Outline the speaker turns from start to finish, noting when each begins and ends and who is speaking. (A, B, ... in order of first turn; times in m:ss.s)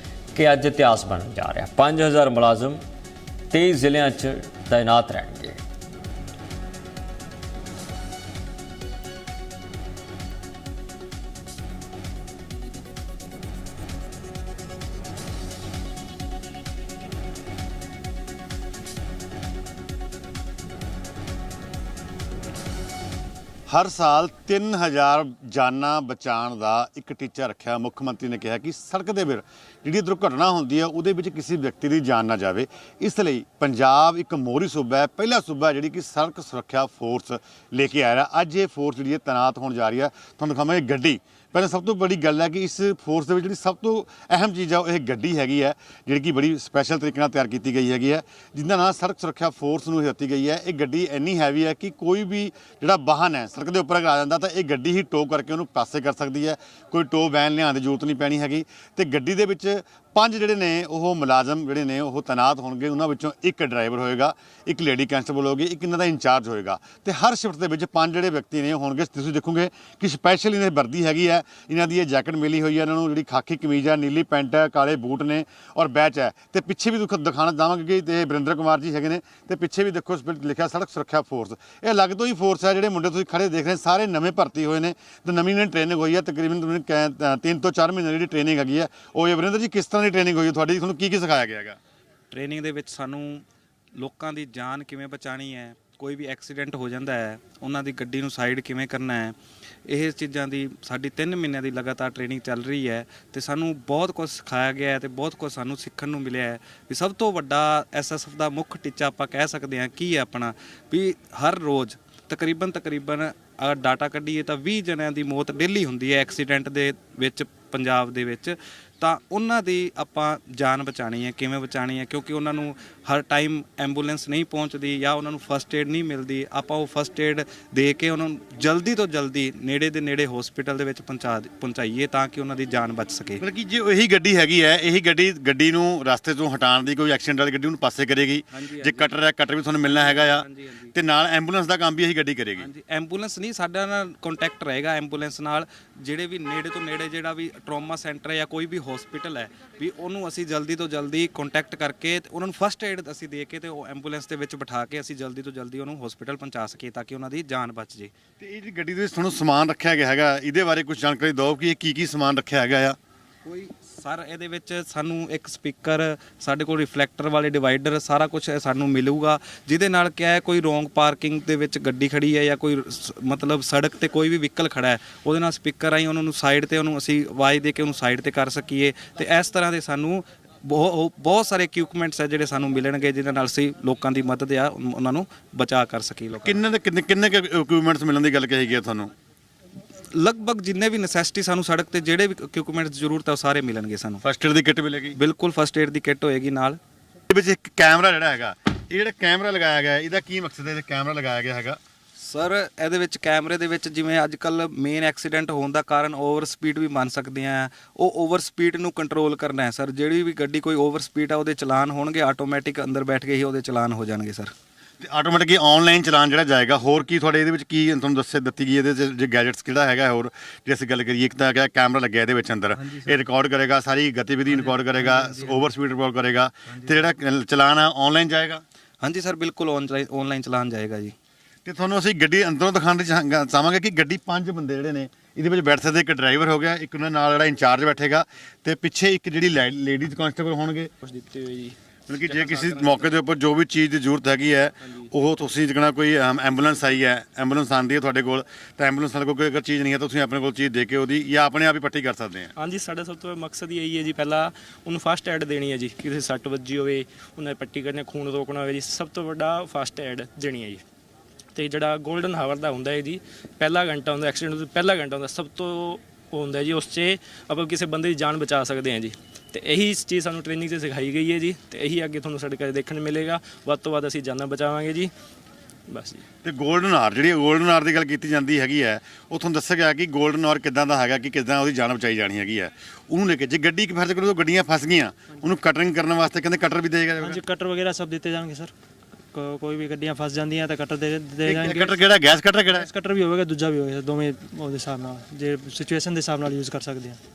0:00.3-0:02.8 A
0:03.5-0:05.6 A
0:23.7-1:31.8 B
1:32.3-1:33.4 C
1:34.0-1:39.4 C
1:39.9-2:13.4 C
2:13.4-2:22.7 B
2:18.5-2:19.2 C
2:19.8-2:20.9 C
2:22.6-2:38.1 C
2:38.4-2:43.0 B
2:43.4-3:06.6 C
3:06.4-3:09.1 B
3:10.2-3:14.2 C
3:14.2-3:15.2 B
3:15.2-3:16.8 C
3:17.3-3:21.8 B
3:22.2-3:34.5 C
3:35.0-3:48.6 B
3:49.0-3:51.2 C
3:51.6-4:00.9 B
4:01.0-4:03.1 D
4:02.1-4:12.5 B
4:12.6-4:20.8 D
4:21.5-4:35.1 D
4:35.9-4:36.2 D
4:36.4-4:47.4 B
4:47.2-4:48.7 E
4:49.3-4:52.0 E
4:51.4-4:52.9 B
4:52.7-4:57.2 E